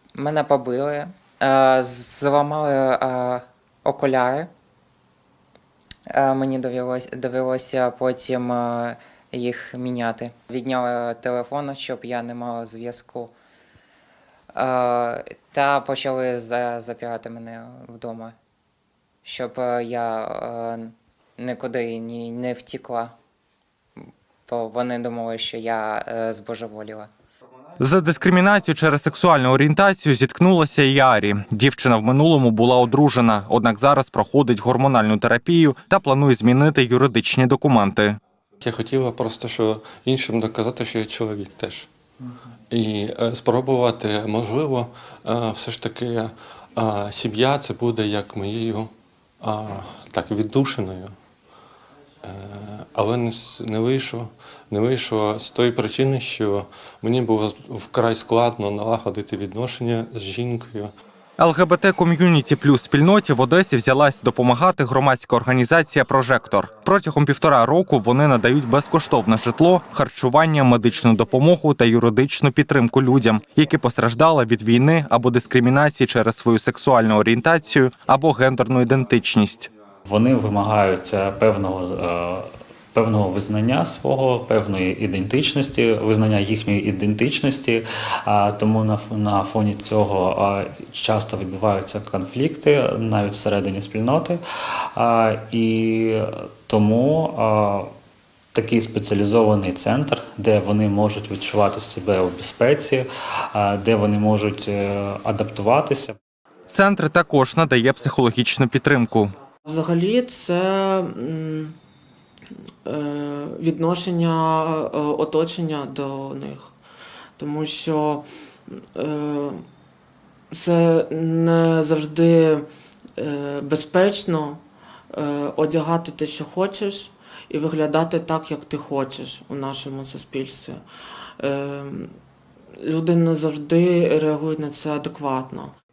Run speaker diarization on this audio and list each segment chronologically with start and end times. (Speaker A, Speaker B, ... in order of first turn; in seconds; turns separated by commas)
Speaker A: 0.1-4.5, Speaker A: 6.1-13.3, Speaker A: 14.5-18.3, Speaker A: 19.2-23.1, Speaker A: 24.5-27.1, Speaker B: 27.8-38.2, Speaker C: 38.6-41.9, Speaker C: 42.7-51.1, Speaker C: 52.2-60.9, Speaker B: 61.4-79.7, Speaker D: 80.0-94.4, Speaker D: 94.9-97.9, Speaker D: 98.5-106.2, Speaker B: 106.7-109.3, Speaker E: 109.7-111.7, Speaker E: 112.8-116.7, Speaker E: 117.4-119.6, Speaker E: 120.5-130.8, Speaker E: 131.4-132.1, Speaker E: 132.8-135.7